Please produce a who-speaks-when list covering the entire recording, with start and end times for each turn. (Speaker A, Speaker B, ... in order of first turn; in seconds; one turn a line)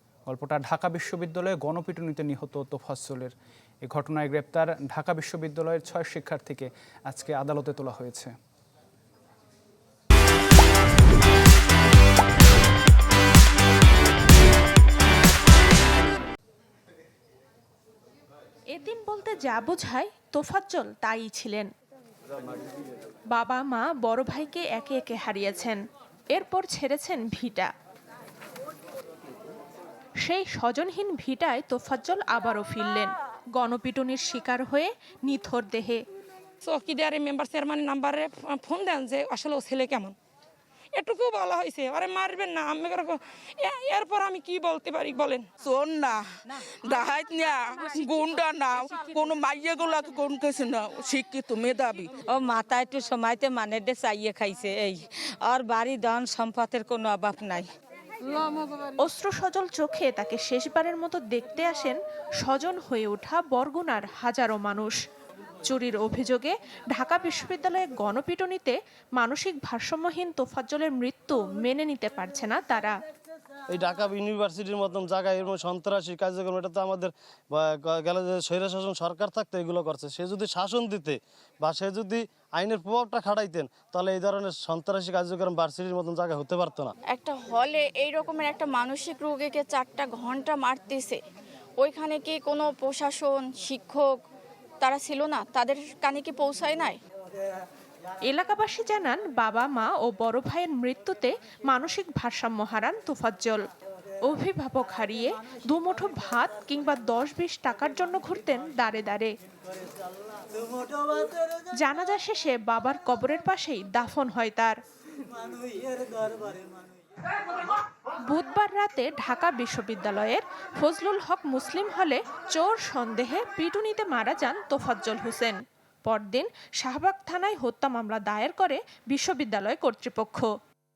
Speaker A: 0.3-8.3
Speaker B: 18.7-21.7
Speaker B: 23.3-25.8
Speaker B: 26.4-27.7
Speaker B: 30.2-36.0
Speaker C: 36.6-40.2
Speaker C: 40.9-45.5
Speaker D: 45.6-52.1
Speaker E: 52.3-57.7
Speaker B: 59.0-65.0
Speaker B: 65.6-73.0
Speaker F: 73.7-86.9
Speaker G: 87.1-91.2
Speaker G: 91.8-94.1
Speaker G: 94.8-97.0
Speaker B: 98.3-103.6
Speaker B: 104.3-109.3
Speaker B: 111.7-114.8
Speaker B: 118.3-130.5